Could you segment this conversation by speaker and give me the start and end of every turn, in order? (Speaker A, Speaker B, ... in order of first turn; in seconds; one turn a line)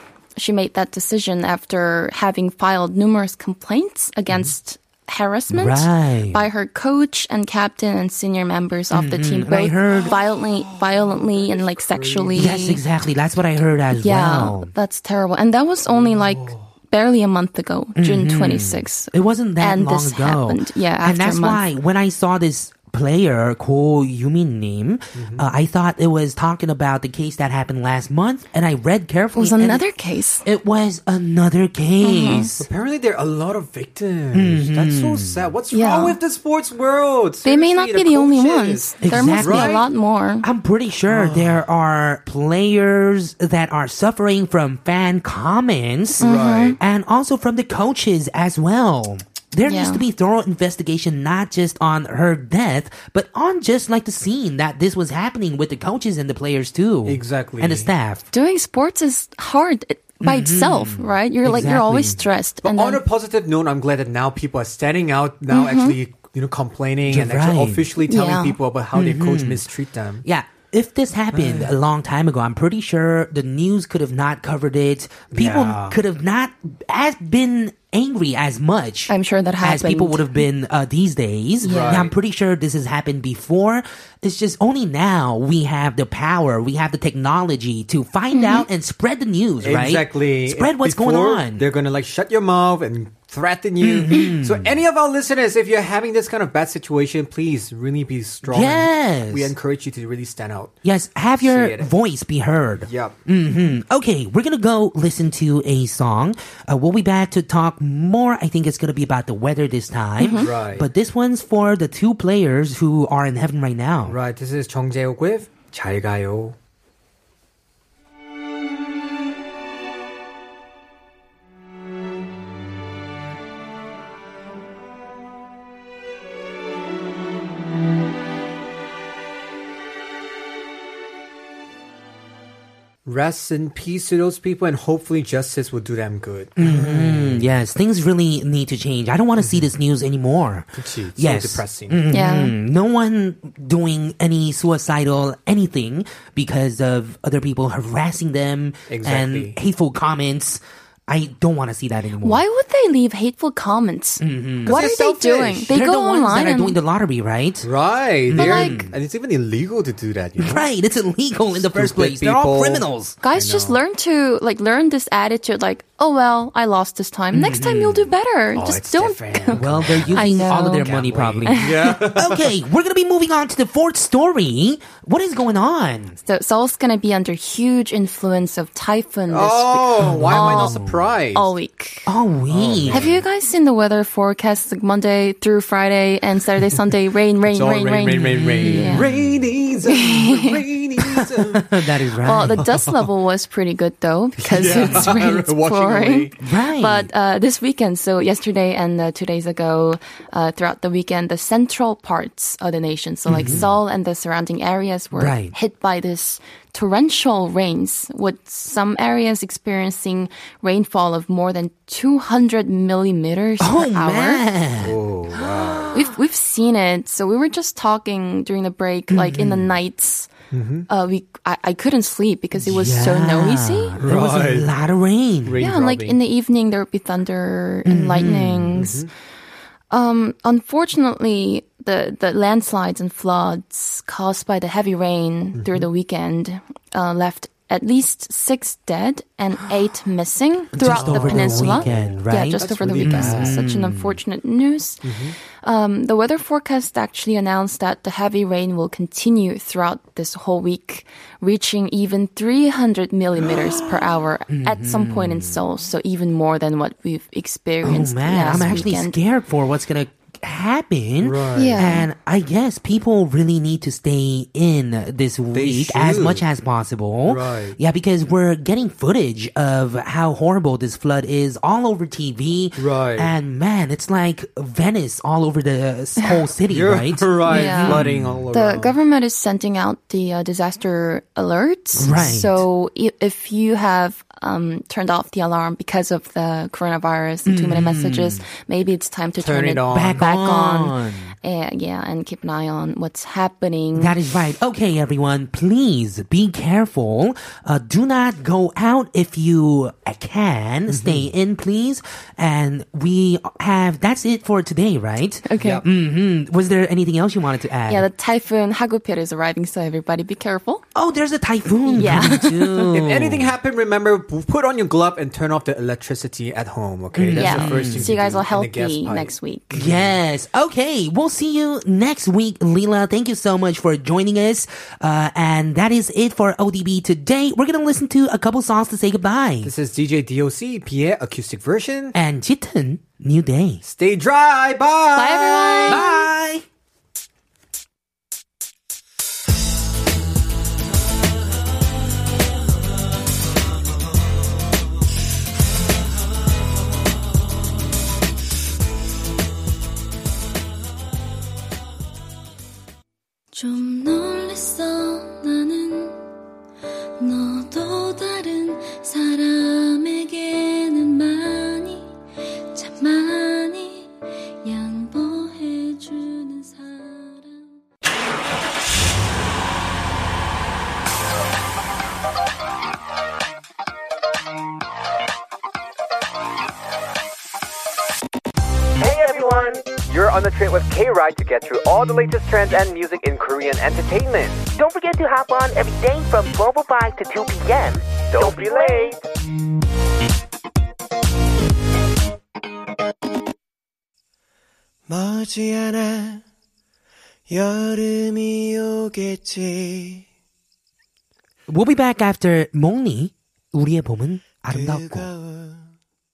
Speaker A: 0.3-12.8
Speaker B: 5.5-6.5
Speaker B: 8.9-10.2
Speaker C: 9.9-12.6
Speaker B: 12.3-14.7
Speaker A: 13.9-21.6
Speaker C: 15.9-16.7
Speaker B: 17.9-29.9
Speaker C: 25.1-25.5
Speaker A: 29.4-30.4
Speaker B: 30.4-32.7
Speaker A: 32.0-32.5
Speaker C: 32.6-39.9
Speaker B: 34.3-35.4
Speaker A: 35.7-36.2
Speaker A: 37.4-40.5
Speaker B: 39.0-39.8
Speaker B: 40.4-58.2
Speaker C: 41.1-41.6
Speaker A: 46.2-46.8
Speaker C: 46.2-46.8
Speaker A: 49.6-50.0
Speaker C: 57.0-57.9
Speaker A: 58.3-63.0
Speaker B: 60.2-62.2
Speaker C: 62.6-70.2
Speaker A: 65.5-66.0
Speaker B: 67.1-67.9
Speaker A: 68.0-68.6
Speaker B: 68.9-69.6
Speaker B: 70.2-91.6
Speaker C: 71.3-71.7
Speaker C: 75.3-76.0
Speaker A: 79.1-80.3
Speaker A: 81.6-82.0
Speaker C: 81.6-82.1
Speaker A: 88.3-88.7
Speaker C: 89.6-100.7
Speaker B: 93.8-94.8
Speaker B: 98.5-99.5
Speaker B: 100.8-114.2
Speaker C: 101.4-101.9
Speaker C: 102.8-103.2
Speaker A: 110.2-110.5
Speaker C: 110.3-110.9
Speaker C: 114.1-116.5
Speaker C: 133.0-137.4
Speaker B: 136.6-152.4
Speaker C: 139.4-139.7
Speaker C: 140.8-142.0
Speaker A: 142.1-142.6
Speaker C: 148.9-149.6
Speaker A: 152.2-156.8
Speaker B: 154.2-154.8
Speaker C: 154.7-155.7
Speaker B: 155.7-157.7
Speaker C: 157.6-160.7
Speaker B: 158.3-158.9
Speaker A: 158.4-158.8
Speaker B: 160.4-163.2
Speaker C: 161.5-163.8
Speaker A: 163.2-170.9
Speaker B: 167.3-168.1
Speaker C: 168.5-172.5
Speaker B: 169.5-176.2
Speaker A: 176.2-180.8
Speaker C: 179.3-181.5
Speaker B: 180.0-181.0
Speaker A: 181.3-182.1
Speaker B: 182.1-183.0
Speaker C: 182.5-183.2
Speaker A: 182.9-189.1
Speaker C: 187.5-191.8
Speaker B: 188.2-189.1
Speaker A: 189.9-190.6
Speaker B: 191.0-192.7
Speaker A: 192.2-214.4
Speaker C: 192.6-193.0
Speaker C: 194.4-196.3
Speaker B: 194.6-195.1
Speaker B: 196.4-197.1
Speaker B: 203.3-203.6
Speaker C: 203.3-203.7
Speaker B: 205.1-205.5
Speaker B: 213.6-216.1
Speaker C: 214.8-215.9
Speaker A: 215.9-220.3
Speaker B: 219.1-219.7
Speaker C: 220.5-220.9
Speaker A: 220.9-223.9
Speaker B: 222.7-225.6
Speaker C: 224.0-224.7
Speaker C: 225.4-226.2
Speaker A: 225.6-229.0
Speaker B: 227.8-228.9
Speaker C: 228.7-229.1
Speaker A: 229.9-245.1
Speaker C: 235.5-235.9
Speaker B: 240.7-244.2
Speaker C: 240.8-243.6
Speaker C: 245.0-245.3
Speaker A: 245.6-259.2
Speaker B: 254.5-255.6
Speaker B: 257.8-278.4
Speaker C: 258.4-258.8
Speaker C: 261.2-262.0
Speaker A: 261.5-262.1
Speaker C: 265.5-266.4
Speaker C: 267.2-267.8
Speaker C: 272.8-273.3
Speaker C: 276.7-278.9
Speaker A: 277.5-294.1
Speaker B: 281.9-282.6
Speaker C: 281.9-282.4
Speaker B: 287.4-288.4
Speaker C: 289.4-290.2
Speaker B: 289.9-291.3
Speaker B: 293.9-308.1
Speaker C: 300.9-301.3
Speaker A: 305.4-305.8
Speaker C: 305.6-305.8
Speaker A: 307.9-310.8
Speaker B: 310.9-313.5
Speaker A: 311.9-312.5
Speaker C: 312.0-320.1
Speaker B: 317.1-318.1
Speaker A: 317.4-319.8
Speaker B: 319.7-329.7
Speaker C: 329.6-332.1
Speaker B: 332.1-333.8
Speaker C: 333.8-336.1
Speaker A: 335.1-336.1
Speaker B: 335.9-336.6
Speaker D: 353.5-356.2
Speaker D: 357.2-362.1
Speaker D: 362.7-367.8
Speaker E: 379.0-379.8
Speaker C: 379.0-384.7
Speaker E: 384.8-389.2
Speaker C: 388.3-389.2
Speaker F: 395.1-396.4
Speaker F: 397.5-400.2
Speaker B: 401.7-405.3
Speaker F: 404.6-405.9